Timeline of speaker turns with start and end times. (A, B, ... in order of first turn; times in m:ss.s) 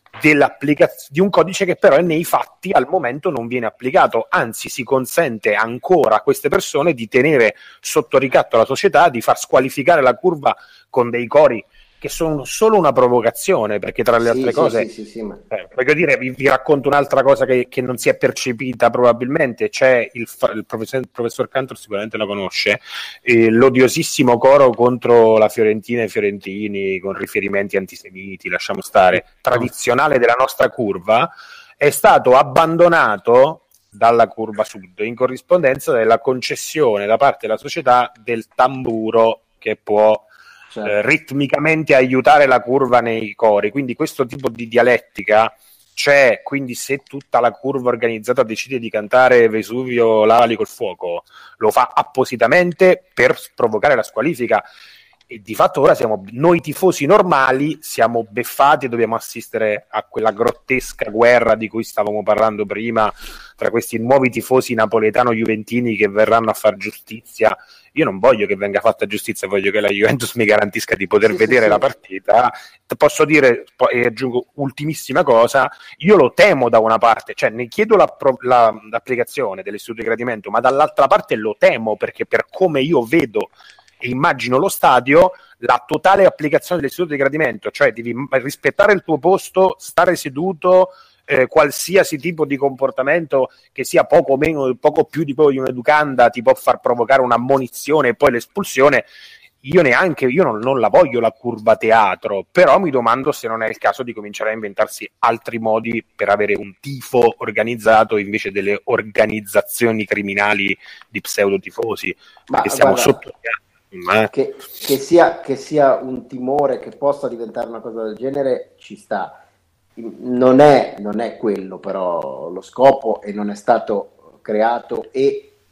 0:00.2-0:14.9 A
0:14.2-0:15.4 B
0:15.5-0:40.3 A
0:40.8-0:54.6 A
0:55.3-1:39.1 A
1:11.2-1:11.8 B
1:39.6-1:54.3 A
1:52.5-1:53.2 B
1:54.3-1:59.4 B
2:00.0-2:05.5 B